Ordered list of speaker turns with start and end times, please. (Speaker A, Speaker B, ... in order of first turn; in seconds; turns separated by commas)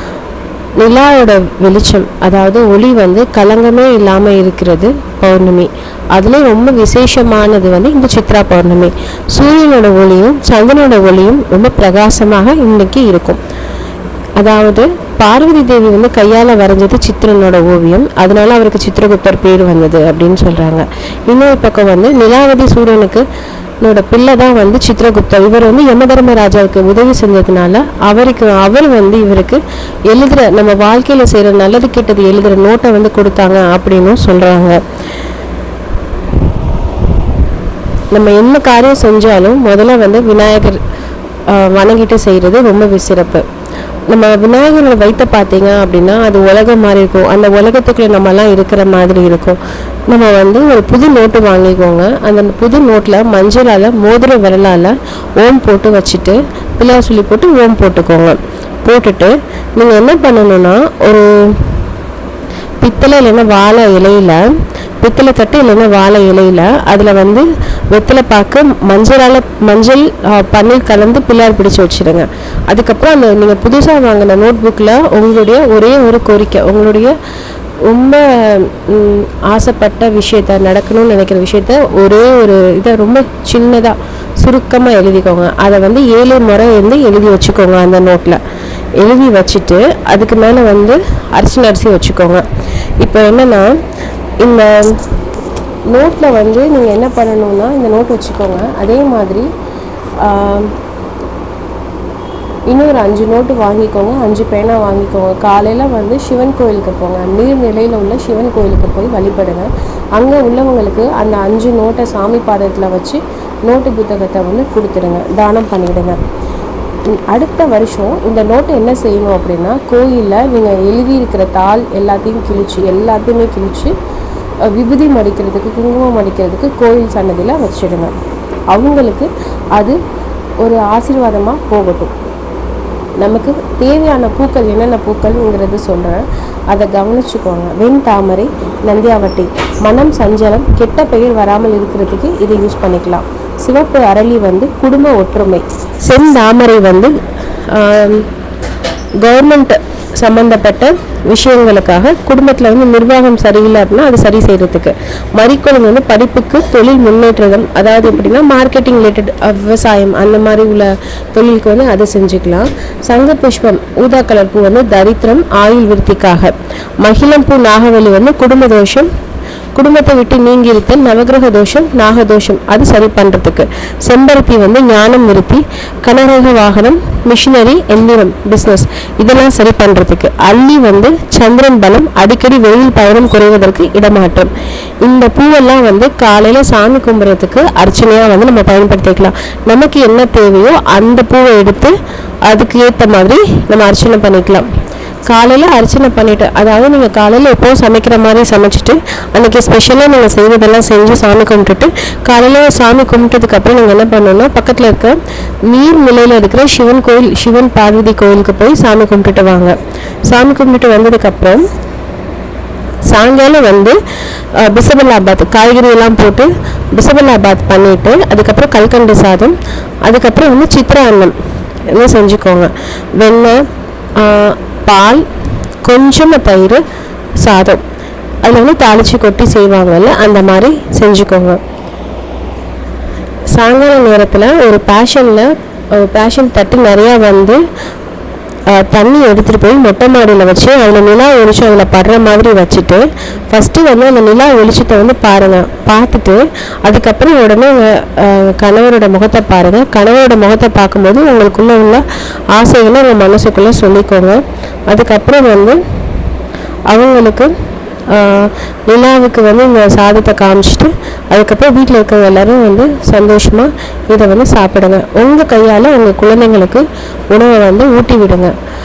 Speaker A: 0.8-13.4, Speaker A: 14.4-23.2, Speaker A: 23.8-34.8, Speaker A: 38.1-40.8, Speaker A: 41.5-43.4, Speaker A: 44.1-49.6, Speaker A: 50.1-61.8, Speaker A: 62.8-64.5, Speaker A: 65.0-77.1, Speaker A: 77.8-88.4, Speaker A: 89.0-92.5, Speaker A: 93.0-93.8, Speaker A: 94.4-95.0, Speaker A: 95.9-99.5, Speaker A: 100.2-100.7, Speaker A: 102.7-116.2, Speaker A: 117.1-123.9, Speaker A: 124.6-128.1, Speaker A: 128.7-130.0, Speaker A: 130.6-132.1, Speaker A: 133.2-147.1, Speaker A: 147.7-148.3, Speaker A: 149.2-169.1, Speaker A: 169.7-184.5, Speaker A: 185.0-191.9, Speaker A: 192.5-194.7, Speaker A: 195.3-205.2, Speaker A: 205.7-209.7, Speaker A: 210.3-211.7, Speaker A: 213.1-214.0, Speaker A: 214.6-221.3, Speaker A: 221.9-223.6, Speaker A: 224.2-225.3, Speaker A: 225.8-226.8, Speaker A: 227.4-227.8, Speaker A: 228.4-231.6, Speaker A: 233.5-237.6, Speaker A: 238.7-255.8, Speaker A: 256.9-257.5, Speaker A: 258.1-268.5